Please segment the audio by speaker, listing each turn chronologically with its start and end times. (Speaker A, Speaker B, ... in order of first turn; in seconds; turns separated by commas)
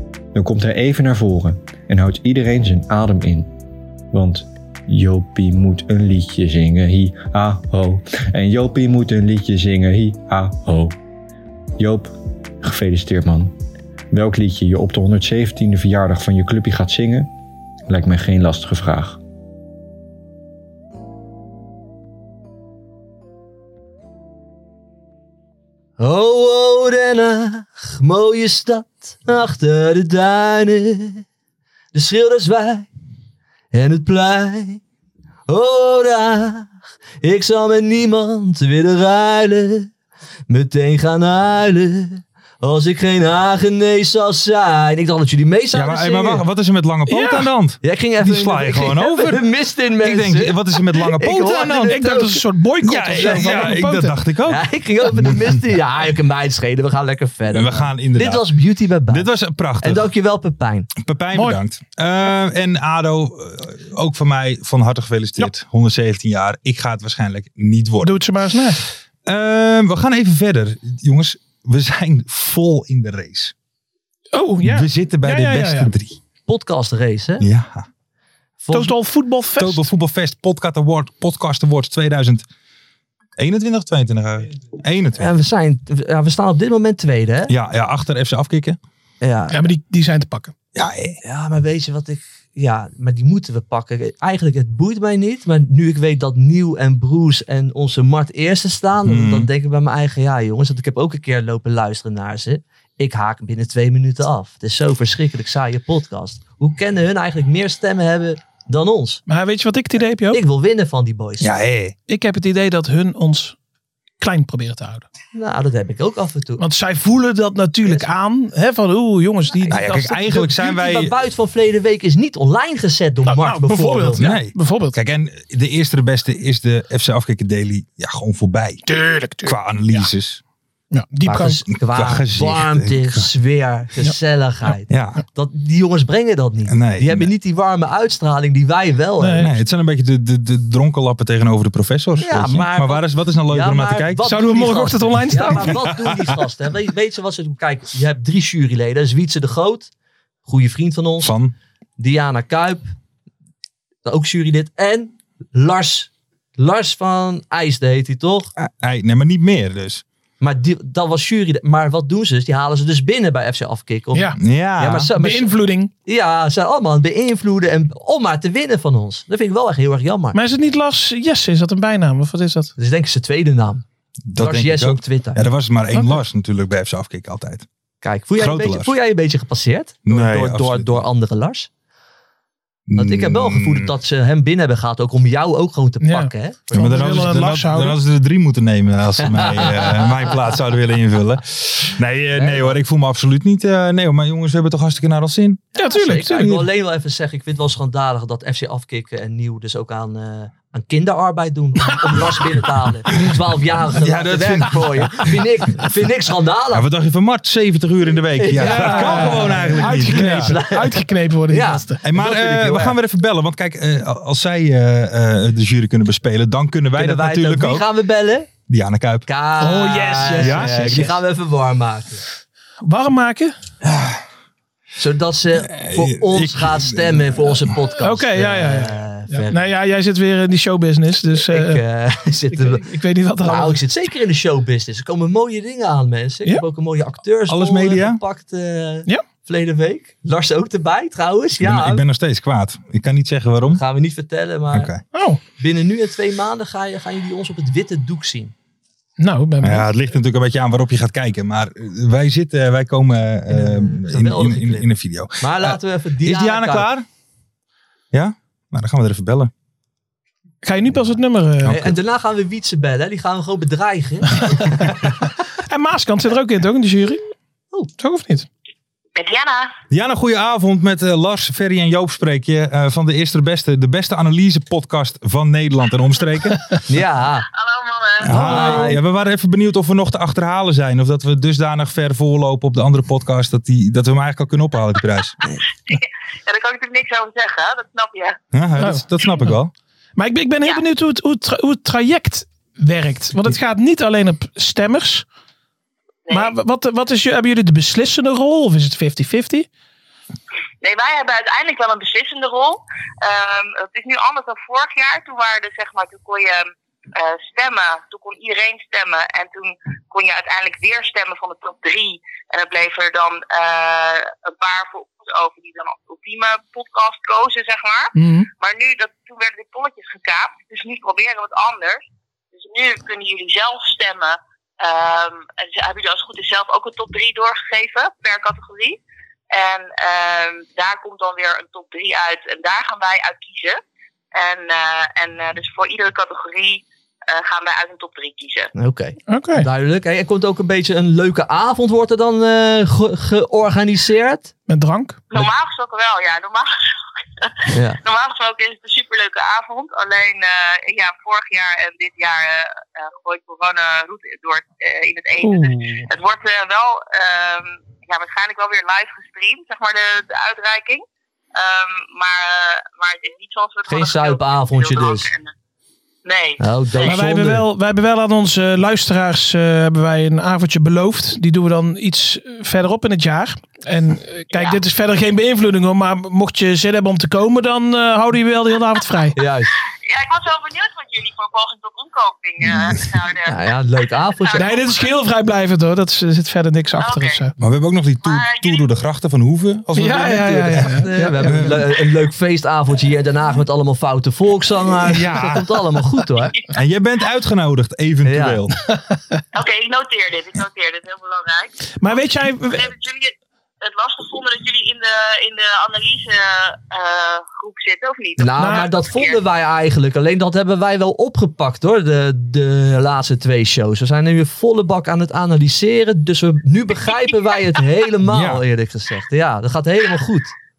Speaker A: 0.3-3.5, Speaker A: 4.1-10.9, Speaker A: 11.8-13.6, Speaker A: 14.1-17.3, Speaker A: 17.9-19.2, Speaker B: 26.0-31.2, Speaker B: 31.9-32.9, Speaker B: 33.7-34.8, Speaker B: 35.5-39.9, Speaker B: 40.5-46.5, Speaker C: 45.7-52.0, Speaker D: 47.1-47.5, Speaker B: 47.8-52.5, Speaker D: 51.7-54.2, Speaker C: 52.8-55.6, Speaker B: 53.1-53.8, Speaker B: 54.5-60.9, Speaker C: 57.5-58.5, Speaker C: 59.1-60.1, Speaker C: 61.0-68.2, Speaker D: 61.3-61.6, Speaker D: 68.0-68.8, Speaker C: 69.3-73.5, Speaker D: 74.3-75.9, Speaker C: 74.6-76.2, Speaker B: 76.5-77.5, Speaker C: 77.4-77.9, Speaker B: 78.6-79.0, Speaker D: 78.7-79.9, Speaker C: 79.6-82.5, Speaker C: 83.4-85.3, Speaker B: 85.2-87.5, Speaker C: 87.5-88.8, Speaker B: 89.2-89.7, Speaker D: 89.5-90.5, Speaker C: 90.8-91.2, Speaker B: 91.2-109.2, Speaker C: 99.1-99.5, Speaker D: 109.3-110.4, Speaker B: 110.3-111.5, Speaker C: 111.4-112.0, Speaker D: 112.1-113.5, Speaker D: 114.2-115.0, Speaker B: 115.3-116.6, Speaker D: 116.6-120.1, Speaker B: 119.6-124.3, Speaker C: 119.7-121.1, Speaker D: 123.3-125.0, Speaker C: 124.2-128.9, Speaker D: 128.9-130.1, Speaker C: 129.4-130.4, Speaker D: 130.9-131.7, Speaker B: 131.2-139.5, Speaker C: 131.7-133.3, Speaker C: 134.9-135.2, Speaker C: 136.7-137.3, Speaker D: 139.2-139.5, Speaker C: 139.4-144.2, Speaker B: 142.2-149.9, Speaker D: 144.2-145.8, Speaker B: 150.5-151.3, Speaker C: 151.2-151.6, Speaker B: 152.0-152.9, Speaker B: 154.1-158.5, Speaker C: 158.6-160.0, Speaker B: 160.4-165.5, Speaker D: 164.1-164.4, Speaker C: 164.4-165.1, Speaker D: 165.2-165.9, Speaker B: 166.1-170.4, Speaker D: 170.3-172.7, Speaker B: 172.8-173.8, Speaker C: 174.3-177.7, Speaker B: 174.4-175.5, Speaker B: 178.0-181.7, Speaker C: 178.4-178.9, Speaker C: 180.1-181.1, Speaker C: 182.9-183.9, Speaker B: 183.0-187.4, Speaker D: 186.0-188.0, Speaker C: 186.7-195.7, Speaker B: 189.2-190.3, Speaker B: 192.3-192.8, Speaker B: 195.8-206.9, Speaker D: 195.8-196.6, Speaker C: 204.0-205.3, Speaker C: 206.7-210.6, Speaker B: 208.4-213.0, Speaker D: 208.6-212.0, Speaker C: 212.0-217.9, Speaker B: 216.9-218.5, Speaker C: 218.7-219.3, Speaker B: 219.3-222.2, Speaker D: 219.6-221.1, Speaker C: 220.4-221.1, Speaker D: 222.8-223.5, Speaker C: 223.8-224.2, Speaker B: 225.0-229.7, Speaker C: 225.6-227.7, Speaker D: 228.0-231.8, Speaker B: 231.3-242.0, Speaker D: 232.5-233.8, Speaker C: 237.5-238.2, Speaker C: 241.6-243.8, Speaker B: 243.7-244.9, Speaker C: 244.7-245.0, Speaker D: 245.1-245.4, Speaker B: 245.6-248.5, Speaker D: 249.2-249.9, Speaker C: 249.6-257.1, Speaker B: 253.5-254.9, Speaker B: 255.4-256.9, Speaker C: 258.1-259.5, Speaker D: 260.6-261.9, Speaker C: 261.6-261.9, Speaker B: 261.7-264.8, Speaker D: 264.4-264.7, Speaker D: 265.7-267.2, Speaker D: 268.0-268.5, Speaker E: 269.1-269.7, Speaker C: 269.9-276.6, Speaker B: 276.9-277.5, Speaker E: 277.5-278.4, Speaker C: 278.2-285.4, Speaker B: 278.3-279.0, Speaker D: 278.4-278.9, Speaker E: 285.9-288.4, Speaker C: 288.5-289.7, Speaker D: 288.8-289.6, Speaker D: 290.2-295.3, Speaker E: 296.3-296.6, Speaker D: 296.3-299.7, Speaker E: 300.8-322.0, Speaker D: 318.1-318.5, Speaker E: 322.6-329.0, Speaker E: 329.5-333.8, Speaker E: 334.4-338.7, Speaker B: 338.8-344.5, Speaker D: 339.3-339.7, Speaker D: 344.7-345.2, Speaker E: 345.3-346.7, Speaker E: 347.4-365.5, Speaker B: 347.7-348.0, Speaker D: 355.4-356.1, Speaker B: 363.9-365.3, Speaker E: 366.2-367.2, Speaker B: 366.6-367.7, Speaker D: 367.0-379.4, Speaker E: 374.5-374.8, Speaker B: 379.4-379.7, Speaker E: 380.1-385.2, Speaker C: 382.7-382.9, Speaker B: 383.4-384.7, Speaker D: 384.6-387.6, Speaker E: 387.0-387.4, Speaker C: 387.6-390.9, Speaker E: 388.2-388.9, Speaker D: 389.9-391.9, Speaker B: 390.3-396.5, Speaker C: 391.4-391.8, Speaker C: 395.1-395.7, Speaker C: 396.7-398.8, Speaker B: 398.2-398.6, Speaker D: 398.9-399.4, Speaker E: 399.5-409.4, Speaker D: 402.0-402.9, Speaker B: 408.4-420.5, Speaker D: 408.6-408.9, Speaker E: 417.0-417.9, Speaker C: 418.2-418.6